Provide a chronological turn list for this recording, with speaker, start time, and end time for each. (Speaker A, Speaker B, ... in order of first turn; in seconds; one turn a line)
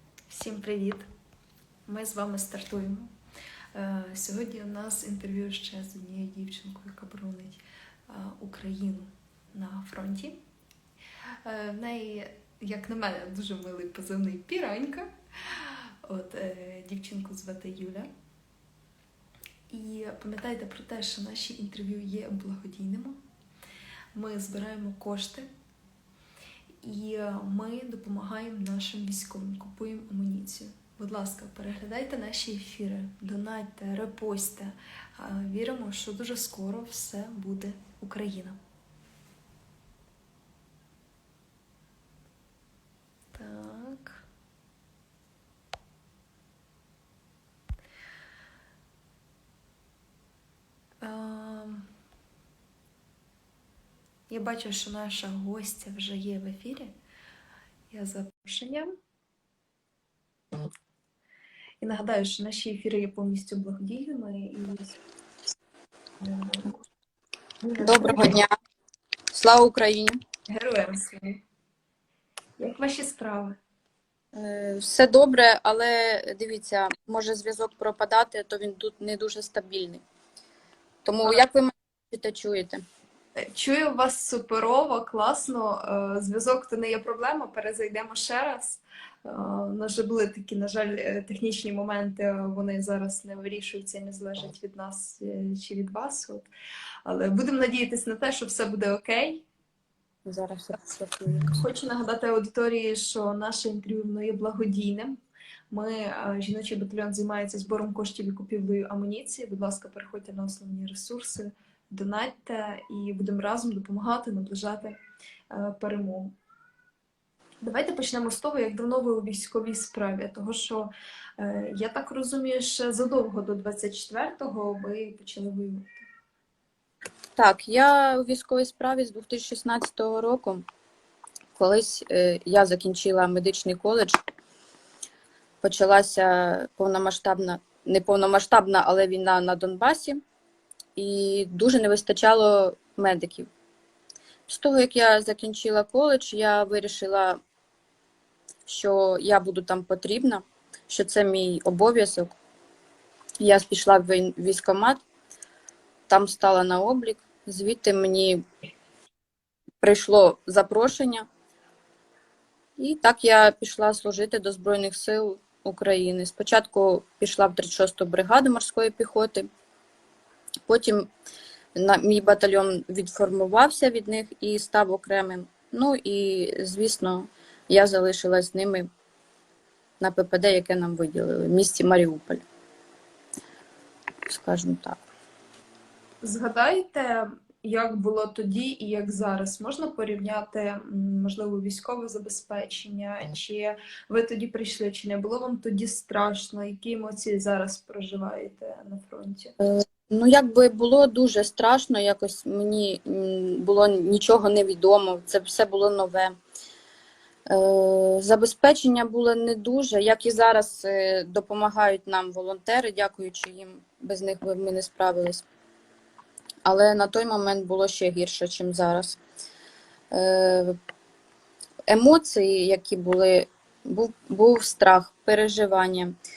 Speaker A: 0.3-1.1
Speaker A: 1.9-3.1
Speaker A: 3.7-10.4
Speaker A: 11.4-18.1
Speaker A: 19.7-23.2
Speaker A: 24.1-25.5
Speaker A: 26.8-38.6
Speaker A: 43.3-44.2
Speaker A: 51.0-51.9
Speaker A: 54.3-57.0
Speaker A: 57.9-58.9
Speaker A: 61.8-65.0
Speaker A: 66.2-66.8
Speaker A: 67.6-68.4
Speaker B: 67.8-68.5
Speaker B: 69.3-70.2
Speaker A: 70.5-71.4
Speaker A: 72.6-73.6
Speaker B: 74.3-80.0
Speaker B: 81.0-82.8
Speaker A: 83.4-96.5
Speaker A: 97.1-99.5
Speaker B: 100.3-101.6
Speaker A: 101.6-105.2
Speaker A: 105.7-115.0
Speaker A: 115.5-116.3
Speaker A: 117.6-126.0
Speaker B: 127.4-130.7
Speaker B: 131.6-134.2
Speaker B: 135.6-140.2
Speaker B: 141.0-143.5
Speaker B: 144.5-147.4
Speaker B: 148.7-152.3
Speaker B: 153.4-155.0
Speaker B: 156.1-158.4
Speaker B: 159.8-161.3
Speaker B: 162.8-169.5
Speaker B: 170.7-171.1
Speaker B: 171.8-178.9
Speaker B: 180.0-182.4
Speaker B: 184.3-185.0
Speaker A: 186.2-199.5
Speaker B: 199.6-206.4
Speaker B: 207.5-215.4
Speaker B: 216.7-219.2
Speaker B: 220.1-220.8
Speaker B: 221.9-226.2